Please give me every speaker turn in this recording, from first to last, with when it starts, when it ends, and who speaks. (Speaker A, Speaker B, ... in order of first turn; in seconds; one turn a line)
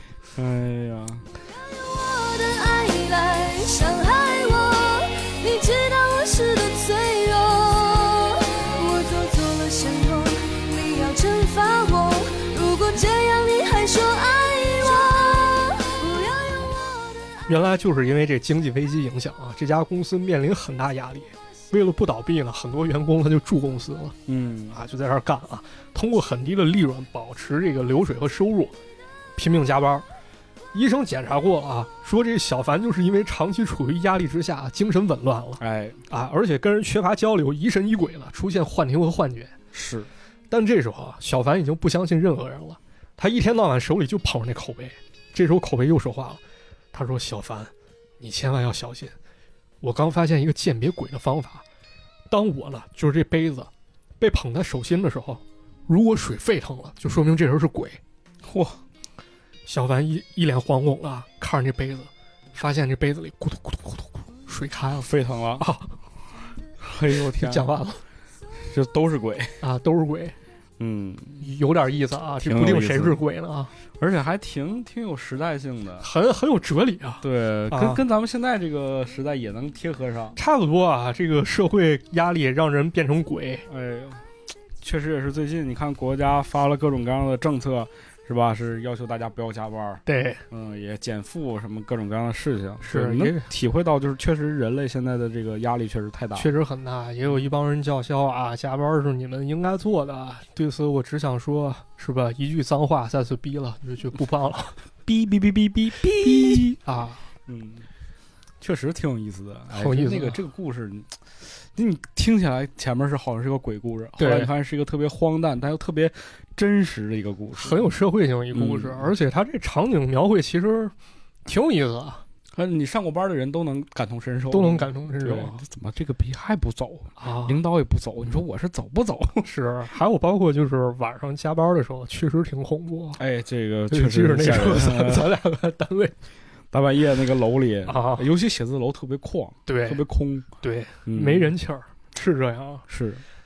Speaker A: 0.3-1.3
Speaker B: 1.7-17.5
Speaker C: 17.5-24.2
Speaker A: 24.3-24.8
Speaker C: 24.7-28.7
Speaker C: 29.4-30.1
Speaker C: 30.7-39.5
Speaker A: 35.6-36.0
Speaker A: 39.7-40.1
Speaker C: 40.5-46.4
Speaker C: 46.9-49.1
Speaker C: 49.8-51.6
Speaker C: 52.3-58.0
Speaker A: 58.4-58.8
Speaker C: 59.7-65.1
Speaker A: 65.0-65.7
Speaker C: 65.6-65.9
Speaker A: 66.8-67.7
Speaker C: 67.2-68.0
Speaker A: 68.6-69.6
Speaker C: 69.6-70.3
Speaker A: 70.8-71.5
Speaker C: 71.4-73.7
Speaker A: 72.4-73.2
Speaker A: 74.0-76.1
Speaker C: 76.0-78.0
Speaker A: 77.2-80.4
Speaker C: 80.4-83.7
Speaker A: 83.7-84.2
Speaker A: 84.8-96.5
Speaker C: 90.1-90.4
Speaker C: 92.8-93.5
Speaker C: 96.3-104.8
Speaker A: 105.0-106.8
Speaker C: 106.2-107.2
Speaker A: 107.5-107.9
Speaker A: 108.6-117.8
Speaker C: 109.7-110.4
Speaker C: 114.2-114.5
Speaker C: 117.6-120.9
Speaker A: 118.5-119.1
Speaker C: 121.5-122.2
Speaker A: 122.5-129.4
Speaker C: 124.5-125.6
Speaker C: 127.2-127.6
Speaker C: 129.4-133.2
Speaker A: 133.2-135.3
Speaker C: 133.9-136.2
Speaker A: 136.7-140.5
Speaker C: 137.9-138.3
Speaker C: 139.7-140.0
Speaker C: 140.6-142.8
Speaker A: 141.1-141.5
Speaker A: 142.9-143.2